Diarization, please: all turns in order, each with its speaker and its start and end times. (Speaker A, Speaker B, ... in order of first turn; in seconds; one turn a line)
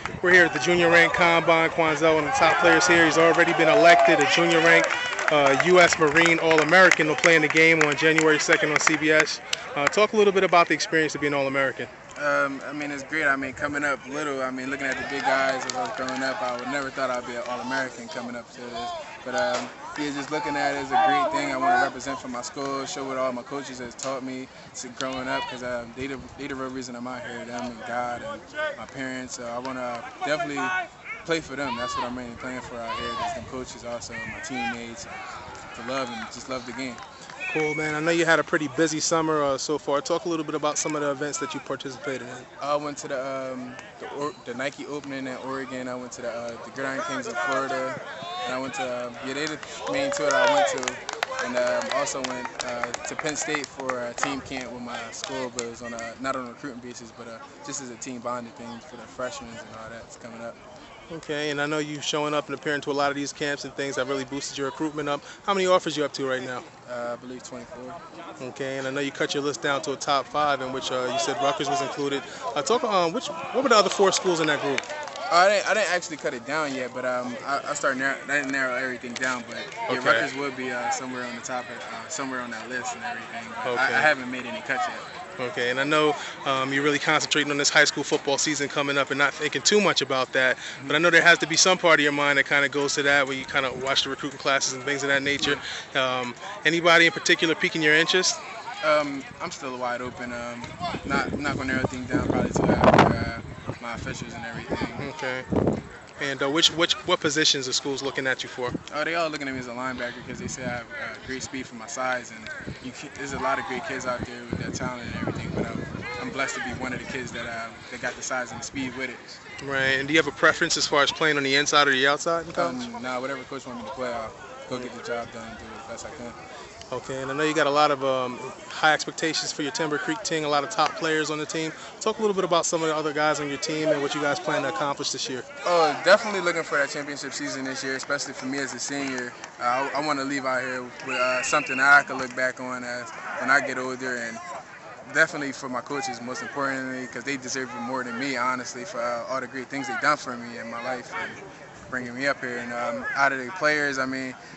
Speaker A: 0.2-11.9
Speaker B: 12.2-37.0
Speaker A: 37.5-42.5
Speaker B: 42.6-60.6
Speaker A: 61.1-66.6
Speaker B: 66.8-68.0
Speaker A: 68.4-74.8
Speaker B: 75.3-85.1
Speaker A: 79.9-80.3
Speaker A: 83.6-84.1
Speaker A: 85.4-98.4
Speaker B: 98.8-105.1
Speaker A: 105.0-105.5
Speaker A: 106.2-108.8
Speaker B: 108.9-119.4
Speaker A: 119.6-122.8
Speaker B: 122.5-126.4
Speaker A: 126.9-135.4
Speaker B: 135.6-144.4
Speaker B: 145.0-154.4